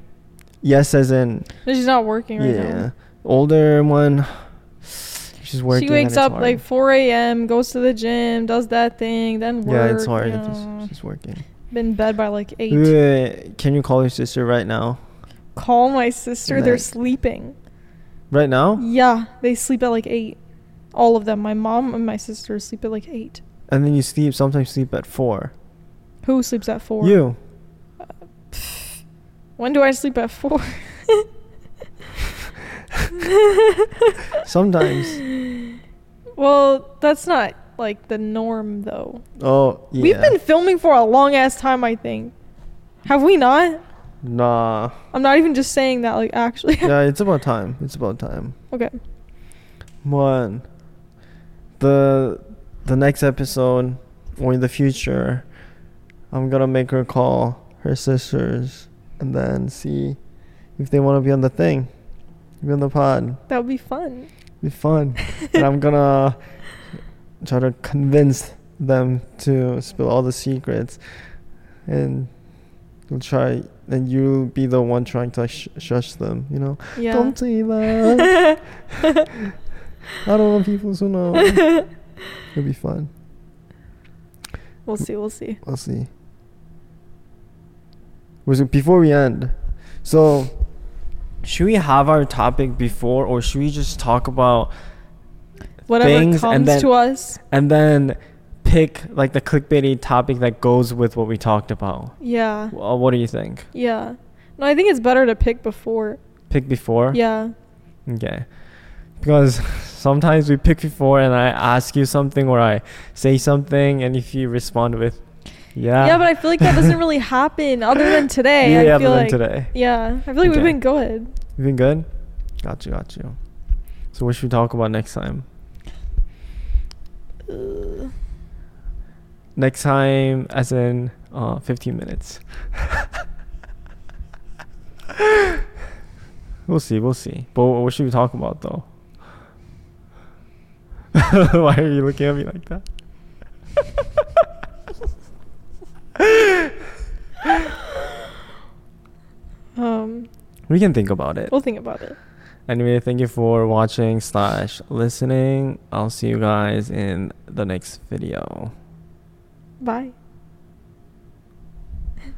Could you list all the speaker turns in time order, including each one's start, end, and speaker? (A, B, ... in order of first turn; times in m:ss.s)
0:00.6-0:01.5 A
0:01.6-0:02.8 B
0:02.4-0:06.6 A
0:05.7-0:10.9 B
0:09.6-0:11.4 A
0:11.7-0:12.9 B
0:12.7-0:15.0 A
0:15.5-0:17.6 B
0:16.5-0:16.9 A
0:18.3-0:18.8 A
0:18.8-0:20.4 B
0:20.9-0:23.4 B
0:23.7-0:25.5 A
0:26.2-0:27.2 B
0:27.0-0:27.4 A
0:28.5-0:29.0 B
0:29.6-0:31.3 B
0:33.1-0:34.2 B
0:34.3-0:35.2 A
0:35.0-0:35.8 B
0:36.4-0:39.2 B
0:39.4-0:40.4 A
0:40.0-0:42.3 B
0:43.0-0:43.8 B
0:44.2-0:45.0 A
0:45.1-0:46.9 B
0:46.8-0:48.5 A
0:48.7-0:49.0 B
0:50.0-0:50.6 A
0:51.8-0:55.4 A
0:56.3-1:00.2 A
1:00.8-1:01.9 A
1:02.6-1:03.4 A
1:03.5-1:04.3 B
1:04.6-1:06.4 A
1:05.3-1:05.6 B
1:07.4-1:11.0 A
1:11.9-1:12.3 A
1:13.1-1:18.4 A
1:17.0-1:17.4 B
1:17.9-1:19.3 B
1:20.2-1:21.7 A
1:21.3-1:21.9 B
1:22.5-1:23.1 A
1:24.8-1:25.6 B
1:25.6-1:26.1 A
1:28.4-1:30.5 A
1:31.4-1:34.7 A
1:35.9-1:37.4 B
1:36.0-1:42.1 A
1:42.2-1:42.7 B
1:42.7-1:43.7 A
1:43.7-1:46.2 B
1:46.5-1:47.2 A
1:47.1-1:47.5 B
1:48.1-1:48.4 A
1:49.2-1:55.2 A
1:55.7-1:57.0 A
1:56.0-2:01.3 B
1:58.6-1:59.7 A
2:00.4-2:00.8 A
2:01.6-2:02.1 A
2:02.6-2:03.4 A
2:04.1-2:05.4 A
2:07.5-2:08.1 B
2:09.6-2:13.1 A
2:15.2-2:15.4 A
2:16.7-2:18.8 A
2:21.1-2:22.8 A
2:26.2-2:26.7 A
2:29.8-2:30.3 B
2:30.7-2:31.5 A
2:31.5-2:32.2 B
2:32.7-2:38.7 A
2:39.8-2:40.1 B